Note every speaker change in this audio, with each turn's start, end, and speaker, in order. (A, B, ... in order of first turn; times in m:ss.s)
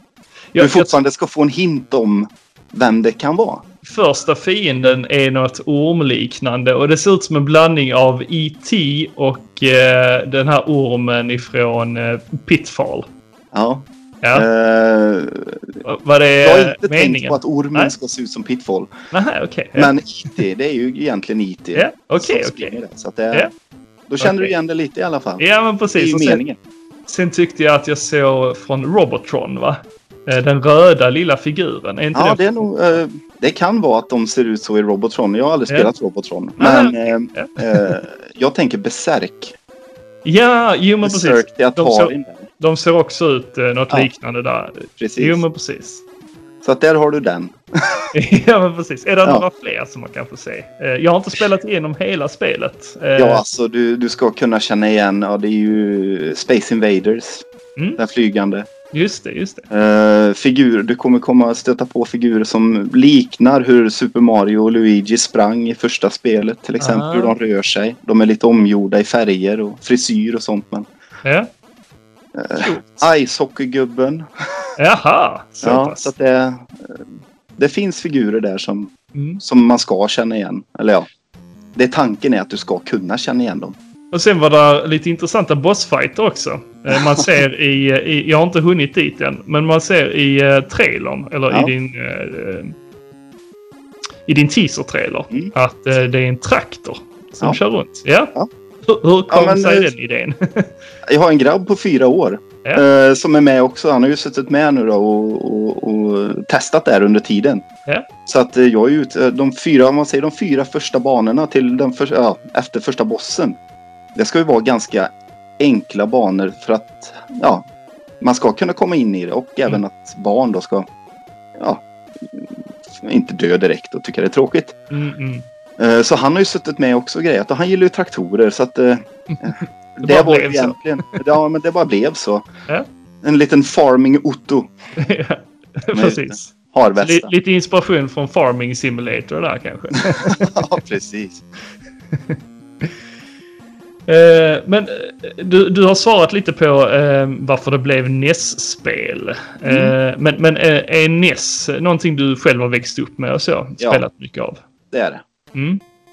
0:00.5-0:01.0 A
0:00.6-0:03.6 B
0:03.8-0:13.1 A
0:13.5-0:15.8 B
0:14.2-0:14.5 A
0:15.8-0:17.9 A
0:16.4-0:18.9 B
0:19.1-0:20.4 A
0:19.7-0:23.5 B
0:21.7-0:22.8 A
0:24.1-0:25.4 B
0:24.2-0:24.5 A
0:25.4-0:26.4 A
0:25.9-0:26.6 B
0:27.1-0:32.7 A
0:32.1-0:39.5 B
0:36.6-0:38.0 A
0:40.2-0:46.0 A
0:41.0-0:42.5 B
0:45.0-0:45.4 B
0:46.6-0:48.1 B
0:48.1-0:53.4 A
0:53.2-0:57.4 B
0:58.0-0:58.7 B
0:58.9-0:59.6 A
0:59.7-1:10.9 B
1:06.8-1:07.3 A
1:11.2-1:11.5 A
1:12.3-1:14.7 B
1:12.6-1:13.0 A
1:14.8-1:16.1 A
1:15.6-1:17.0 B
1:17.6-1:21.1 B
1:19.1-1:19.4 A
1:21.7-1:23.8 B
1:24.1-1:32.7 A
1:27.0-1:27.2 B
1:34.3-1:38.3 A
1:38.8-1:40.7 A
1:39.3-1:39.9 B
1:41.0-1:47.6 B
1:48.2-1:53.5 B
1:54.1-1:57.6 B
1:58.2-2:00.9 B
2:01.6-2:04.8 B
2:04.9-2:05.4 A
2:05.8-2:12.4 B
2:09.3-2:11.2 A
2:13.2-2:14.7 B
2:15.0-2:20.7 A
2:15.9-2:17.3 B
2:20.2-2:21.4 B
2:22.1-2:22.9 A
2:24.1-2:34.6 A
2:29.6-2:29.9 B
2:34.9-2:35.2 B
2:35.5-2:35.8 A